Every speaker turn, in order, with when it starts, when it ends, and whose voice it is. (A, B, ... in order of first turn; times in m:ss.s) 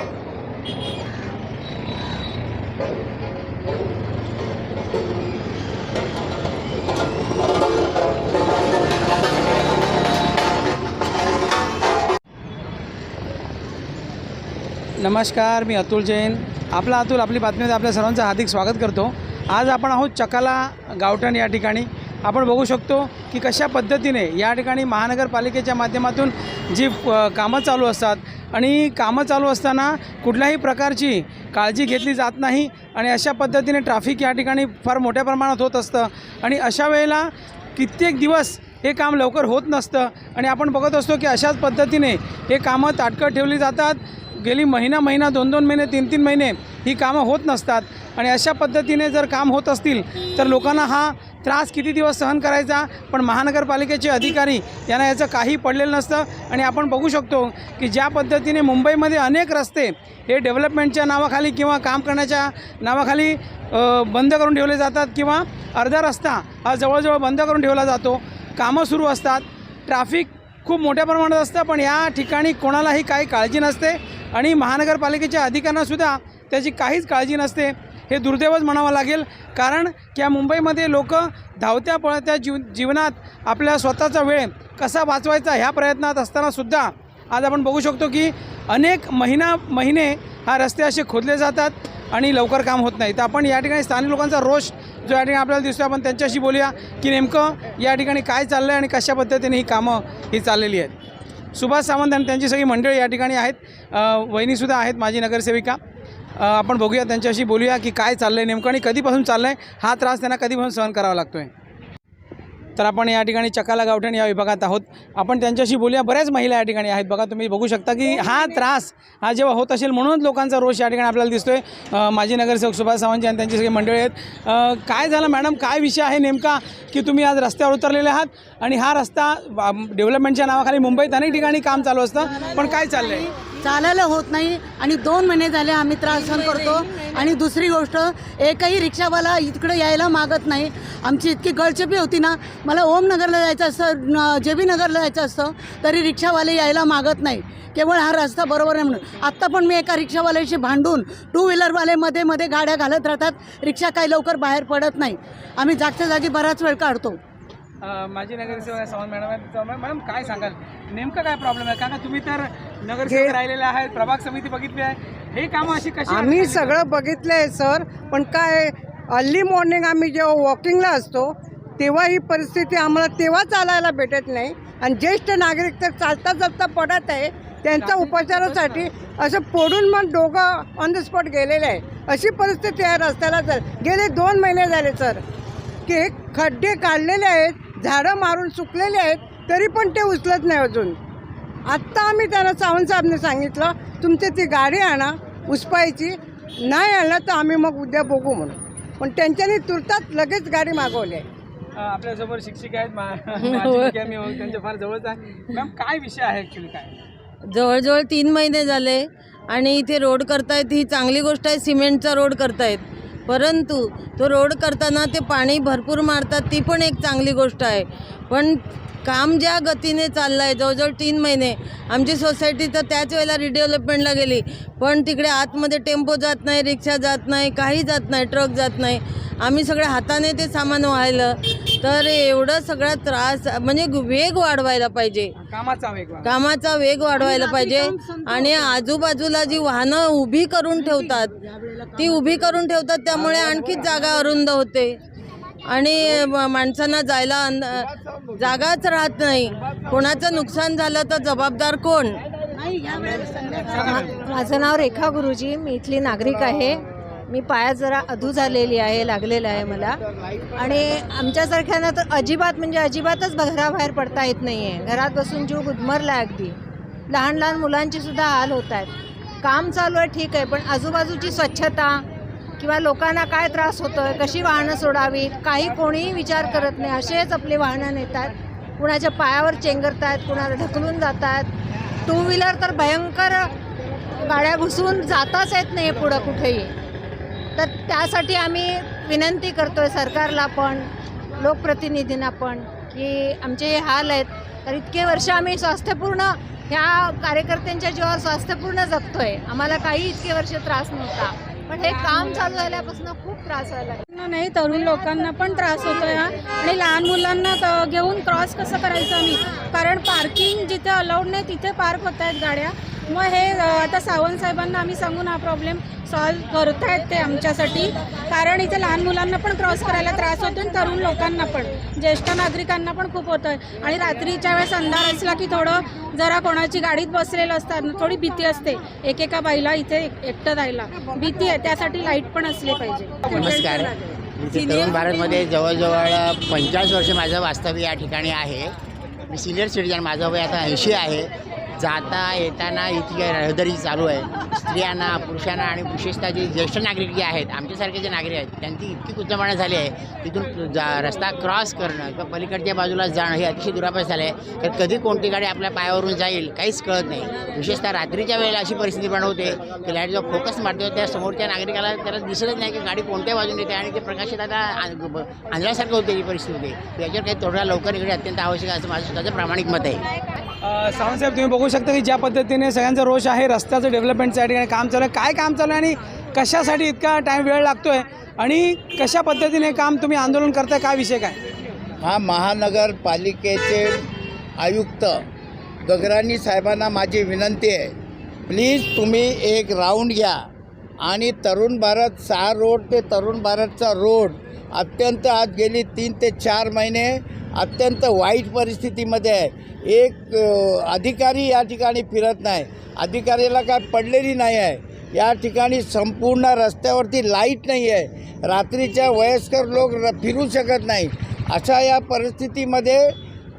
0:15.0-1:40.9 A
1:41.6-1:45.8 A
1:46.4-1:51.5 A
1:52.8-2:13.3 A
2:12.3-2:37.2 B
2:37.8-2:46.8 A
2:43.1-2:43.4 C
2:46.1-3:05.2 C
2:57.8-2:58.9 A
3:05.9-3:11.0 C
3:11.7-3:21.2 C
3:21.8-3:26.9 A
3:23.4-3:23.9 D
3:27.5-3:55.3 D
3:55.4-3:56.3 A
3:56.2-4:05.0 D
3:57.2-3:58.5 B
4:05.7-4:12.2 D
4:12.6-4:14.1 B
4:13.8-4:20.0 E
4:20.6-4:26.6 E
4:27.1-4:32.0 E
4:32.6-4:41.5 E
4:42.0-4:43.5 E
4:44.2-4:46.7 E
4:47.6-4:50.9 E
4:51.4-5:04.0 E
5:02.1-5:02.5 F
5:04.1-5:34.0 F
5:33.4-5:38.7 G
5:39.3-6:10.1 G
6:10.6-6:21.4 A
6:22.0-6:24.0 H
6:24.6-6:25.2 H
6:25.8-6:27.9 H
6:28.5-6:30.4 H
6:31.0-6:53.1 H